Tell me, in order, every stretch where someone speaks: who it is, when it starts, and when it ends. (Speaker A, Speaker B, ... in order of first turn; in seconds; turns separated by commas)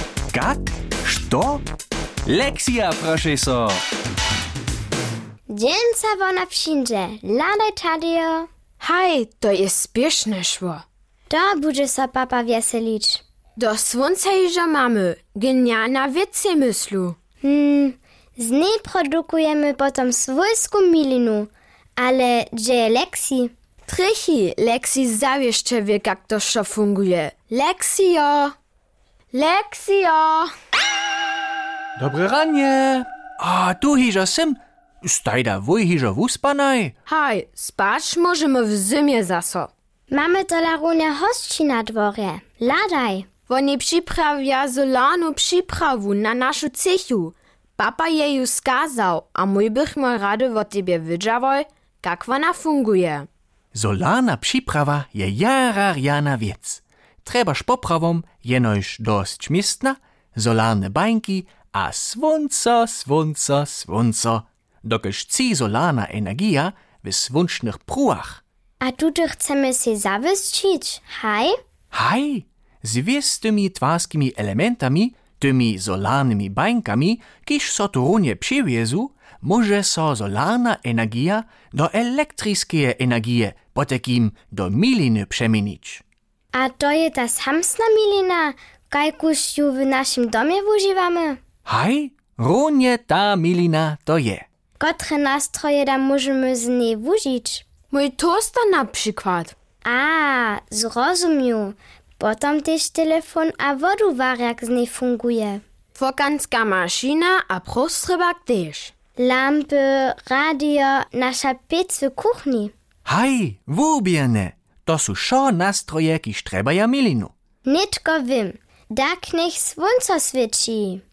Speaker A: 0.3-1.6, Speaker A: 2.2-3.8, Speaker B: 5.5-8.5, Speaker C: 8.8-10.8, Speaker B: 11.3-13.2, Speaker C: 13.6-17.1, Speaker B: 17.4-23.5, Speaker C: 23.9-28.5, Speaker C: 29.3-30.5, Speaker A: 32.0-36.9, Speaker C: 37.1-39.7, Speaker B: 40.1-43.3, Speaker C: 43.5-53.2, Speaker A: 53.7-68.4, Speaker B: 68.8-71.5, Speaker A: 71.9-86.0, Speaker B: 86.5-91.4, Speaker A: 91.7-94.4, Speaker B: 94.8-97.7, Speaker C: 97.9-99.5, Speaker B: 99.8-105.6, Speaker C: 106.0-108.9, Speaker B: 109.2-112.7, Speaker A: 113.0-117.3, Speaker B: 117.6-121.0